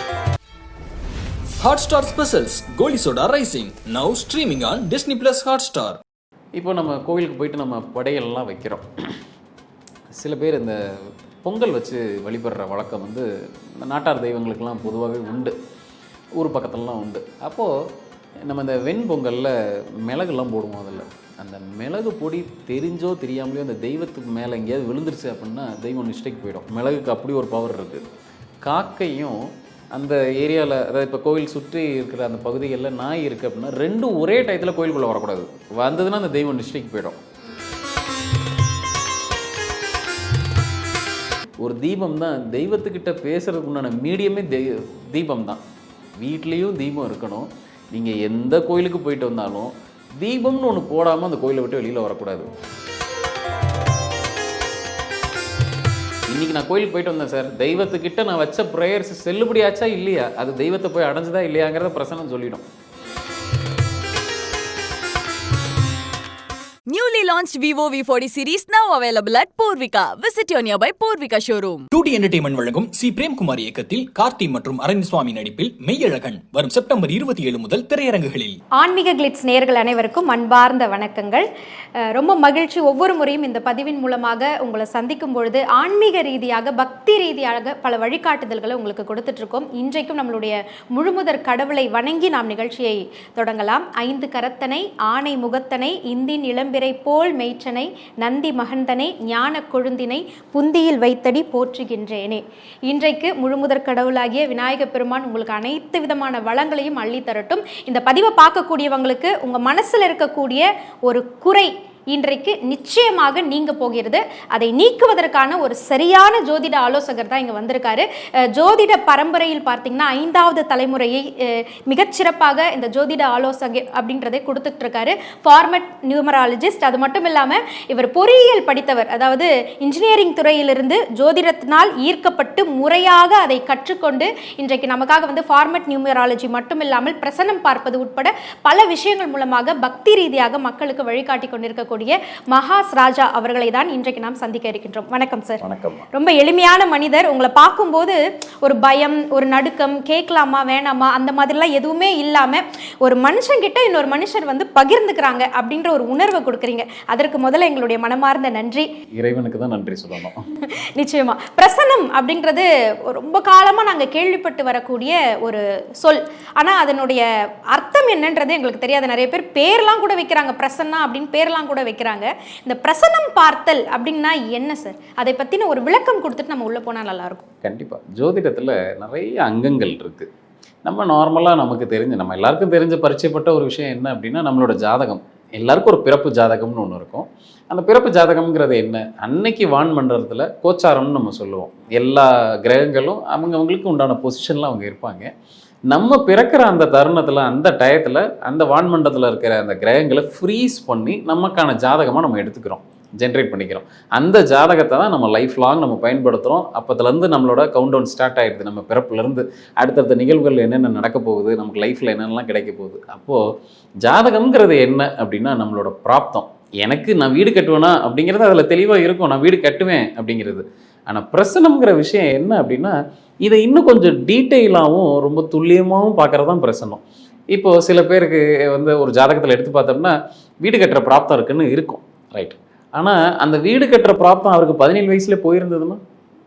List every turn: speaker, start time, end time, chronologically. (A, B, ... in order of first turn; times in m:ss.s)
0:01.6-0:06.0 A
0:06.6-0:09.2 B
0:10.1-0:15.6 B
0:16.4-0:17.7 B
0:18.4-0:28.0 B
0:28.6-0:29.4 B
0:29.9-0:37.2 B
0:41.6-0:45.6 B
0:46.2-0:52.5 B
0:56.3-1:02.6 B
1:06.9-1:11.9 C
1:11.9-1:18.6 A
1:18.8-1:21.4 D
1:22.0-2:25.6 D
2:25.6-2:26.0 B
2:26.1-2:38.9 D
2:39.1-2:40.4 B
2:40.5-2:57.4 D
2:57.6-3:00.3 B
3:00.8-3:15.3 B
3:15.9-3:33.4 B
3:34.0-3:56.0 B